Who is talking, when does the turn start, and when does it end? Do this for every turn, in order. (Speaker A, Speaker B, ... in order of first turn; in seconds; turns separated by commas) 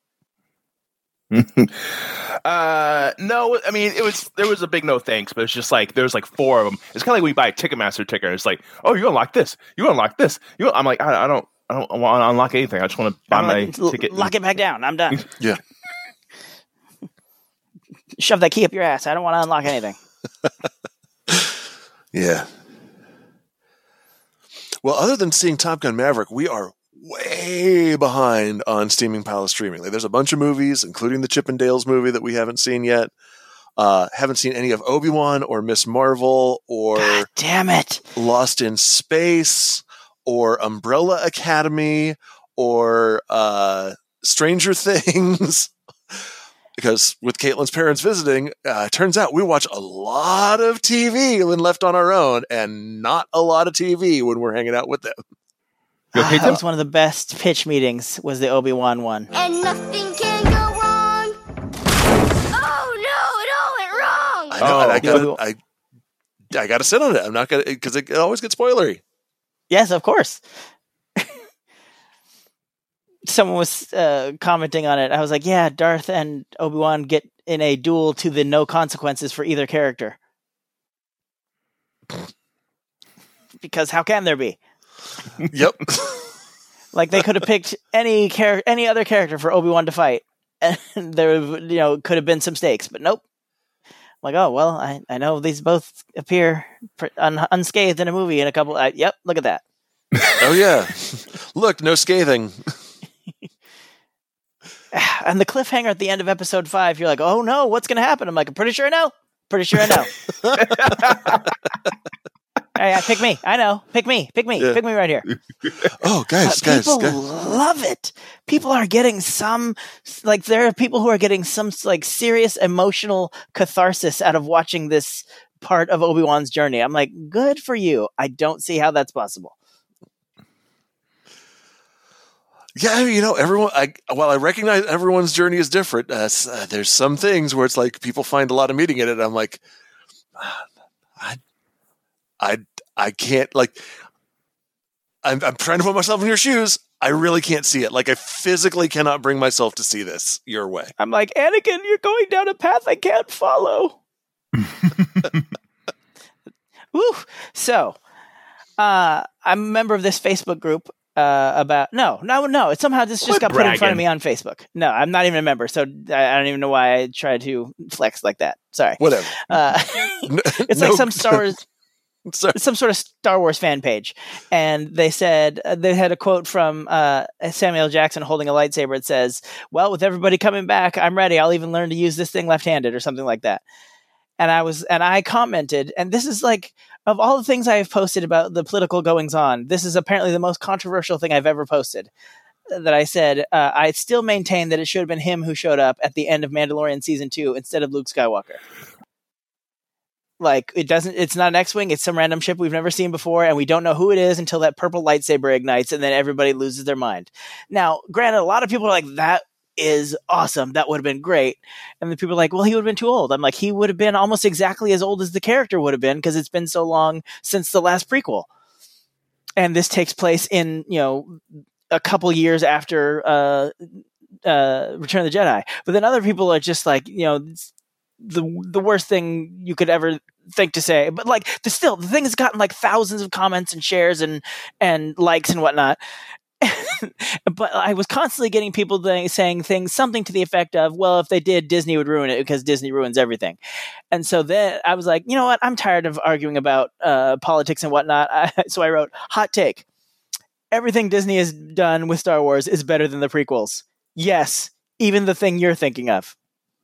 Speaker A: 1.3-14.3, Speaker B: 13.3-15.2, Speaker B: 18.2-20.0, Speaker C: 21.3-21.5, Speaker C: 22.1-22.5, Speaker C: 24.8-33.1, Speaker C: 33.8-37.3, Speaker B: 37.0-38.0, Speaker C: 38.1-46.2, Speaker C: 46.8-55.2, Speaker A: 56.1-56.6, Speaker B: 56.1-59.3, Speaker D: 59.3-61.4, Speaker D: 62.5-64.7, Speaker C: 64.5-65.6, Speaker A: 64.6-65.2, Speaker B: 65.0-65.4, Speaker C: 66.5-69.0, Speaker B: 69.7-70.4, Speaker B: 73.3-80.2, Speaker B: 83.6-84.6, Speaker C: 85.5-86.3, Speaker B: 86.9-93.2, Speaker B: 94.2-99.6, Speaker C: 100.4-102.8, Speaker B: 104.9-110.1, Speaker C: 110.4-110.8, Speaker A: 110.5-111.5, Speaker B: 112.8-115.2, Speaker C: 116.0-117.2, Speaker B: 116.4-129.5, Speaker C: 132.8-139.6, Speaker C: 140.3-141.4, Speaker C: 142.4-143.9, Speaker C: 145.2-150.9, Speaker B: 151.0-154.0, Speaker A: 154.6-155.4, Speaker B: 156.9-158.0, Speaker B: 158.8-171.6, Speaker A: 163.2-164.0, Speaker C: 169.0-171.5, Speaker C: 172.2-172.6, Speaker B: 172.5-183.6, Speaker B: 184.4-192.1, Speaker B: 192.7-198.6, Speaker B: 200.4-218.5, Speaker B: 219.6-227.7, Speaker B: 228.2-236.0, Speaker B: 236.6-243.6, Speaker B: 244.1-249.8, Speaker B: 250.7-256.3